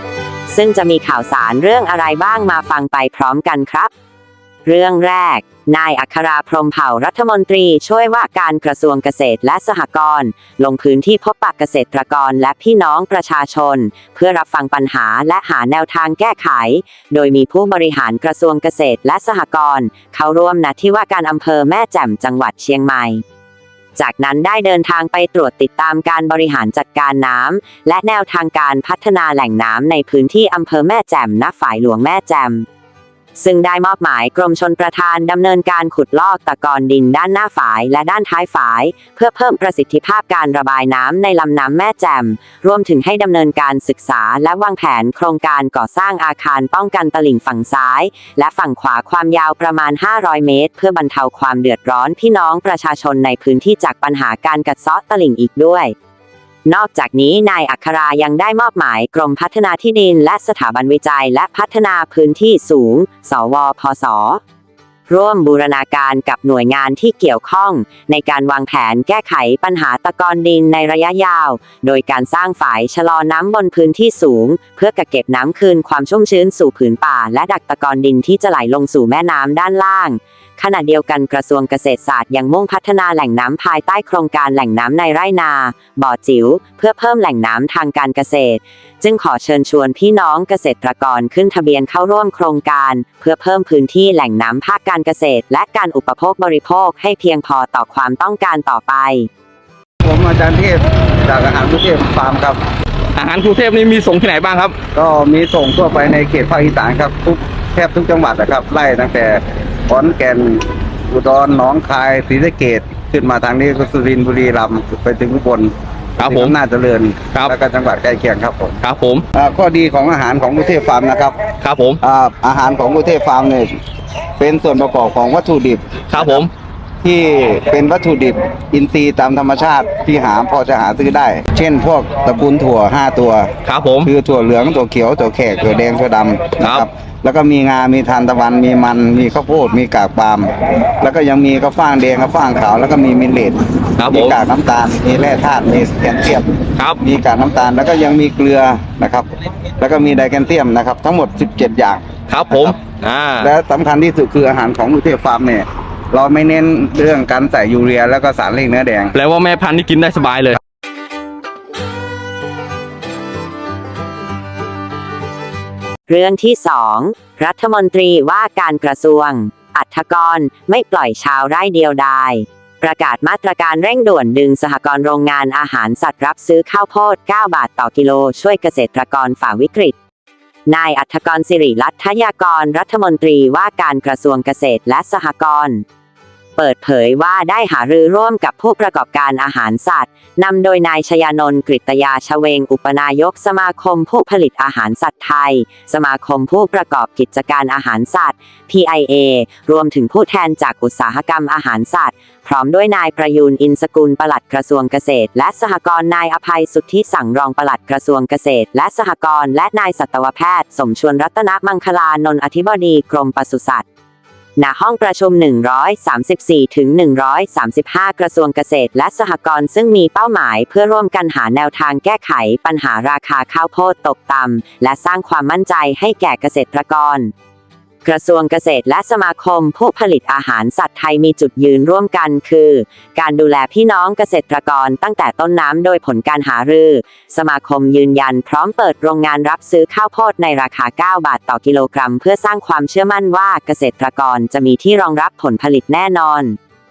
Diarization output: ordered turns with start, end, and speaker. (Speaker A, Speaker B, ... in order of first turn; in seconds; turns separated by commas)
Speaker A: 0.5-3.9, Speaker A: 4.7-23.2, Speaker A: 23.9-32.6, Speaker A: 33.4-55.9, Speaker A: 56.6-64.4, Speaker A: 65.1-99.3, Speaker B: 100.0-102.6, Speaker C: 103.2-104.8, Speaker B: 104.9-118.8, Speaker C: 116.2-116.5, Speaker C: 118.8-119.2, Speaker B: 119.3-121.4, Speaker C: 121.6-122.0, Speaker B: 122.0-123.8, Speaker B: 124.4-126.5, Speaker C: 126.1-126.5, Speaker B: 127.0-152.1, Speaker C: 133.7-134.1, Speaker C: 136.6-136.8, Speaker C: 144.0-144.4, Speaker C: 152.3-153.5, Speaker B: 153.4-159.2, Speaker C: 159.1-160.6, Speaker A: 166.1-179.9, Speaker A: 180.7-185.8, Speaker A: 186.6-213.8, Speaker A: 214.6-227.3, Speaker A: 228.0-246.6